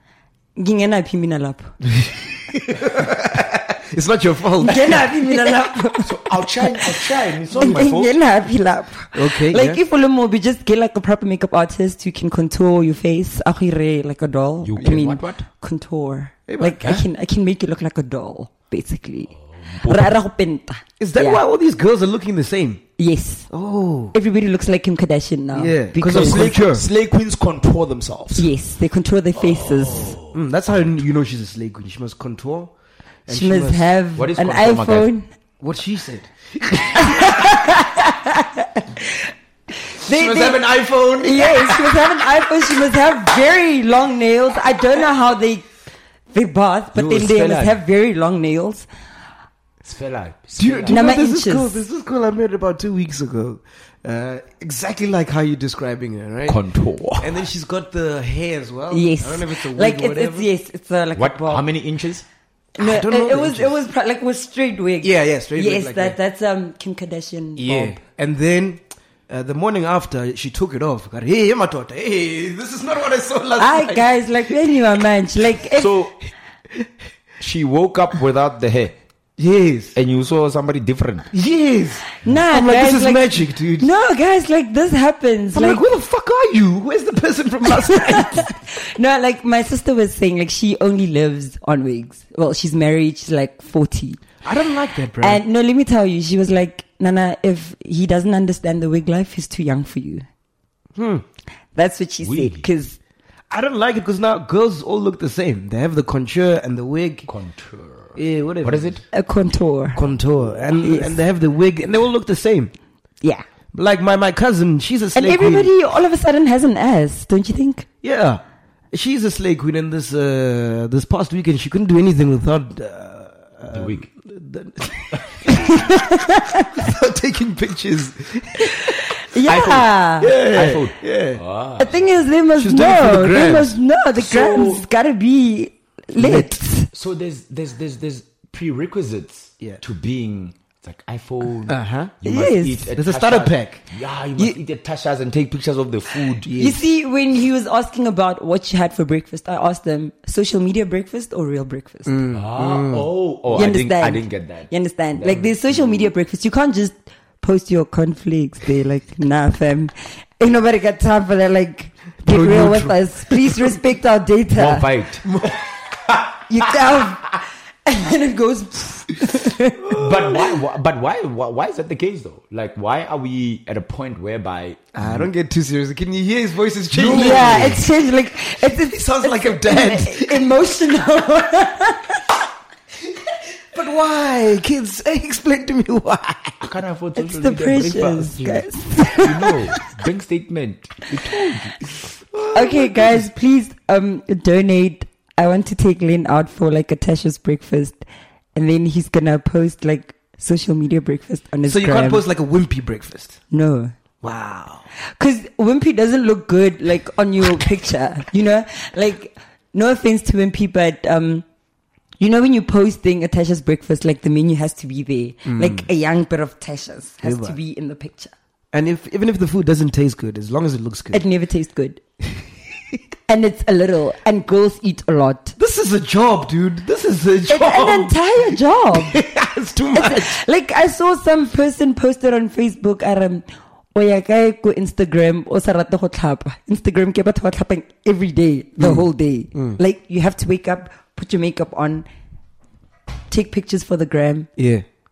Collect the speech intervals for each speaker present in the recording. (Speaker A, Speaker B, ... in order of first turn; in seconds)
Speaker A: 0.6-1.7, 4.6-6.1, 7.5-21.4, 23.0-23.5, 24.1-26.6, 28.4-30.1, 33.3-35.3, 37.0-39.2, 39.9-45.7, 46.3-48.9, 50.9-51.8, 58.9-61.6, 62.8-68.0, 73.6-75.9, 82.2-85.8, 87.9-94.2, 95.2-100.3, 101.8-103.0, 109.1-110.0, 110.8-111.2, 115.2-117.8, 125.6-126.7, 129.3-130.3, 131.8-136.9, 142.2-142.9, 146.6-152.2, 153.5-164.9, 166.5-167.3, 167.9-169.8, 177.1-182.2, 187.2-189.5, 192.5-198.0, 198.6-202.2, 203.5-203.9, 205.2-211.4, 212.2-218.3, 221.1-222.0, 223.3-225.6, 227.5-229.2, 229.9-242.1, 243.3-244.5
Speaker B: 2.0-5.1, 9.1-9.8, 16.5-17.0, 21.0-22.8, 23.5-24.2, 25.5-26.9, 30.3-32.7, 33.3-33.9, 35.6-37.4, 40.0-42.0, 50.6-56.6, 57.2-60.5, 62.8-63.8, 65.0-66.2, 67.6-74.5, 79.4-80.0, 81.3-83.9, 85.5-88.5, 94.4-95.4, 101.0-101.2, 103.5-107.3, 108.2-109.0, 110.0-112.7, 113.7-115.7, 118.0-125.9, 126.8-129.0, 130.2-131.4, 132.6-133.8, 136.2-136.6, 141.7-142.1, 142.9-143.8, 146.4-146.8, 152.1-153.1, 162.2-163.8, 165.2-165.6, 169.8-170.6, 174.9-177.8, 178.6-180.4, 183.7-186.7, 192.2-193.3, 201.7-203.4, 204.2-204.9, 215.4-215.9, 217.2-217.6, 218.7-221.2, 225.6-230.4, 238.8-239.8, 244.6-244.8
Speaker C: 6.0-8.2, 14.7-15.4, 19.6-20.1, 26.0-28.5, 29.4-30.4, 34.2-35.1, 46.9-47.8, 49.8-51.0, 56.5-57.4, 61.1-62.2, 75.8-76.1, 77.4-79.0, 80.0-81.3, 102.2-102.7, 107.3-109.0, 123.7-124.1, 129.5-132.1, 134.2-134.8, 136.9-146.5, 152.3-156.1, 164.6-165.4, 169.9-175.3, 176.9-177.8, 186.6-191.8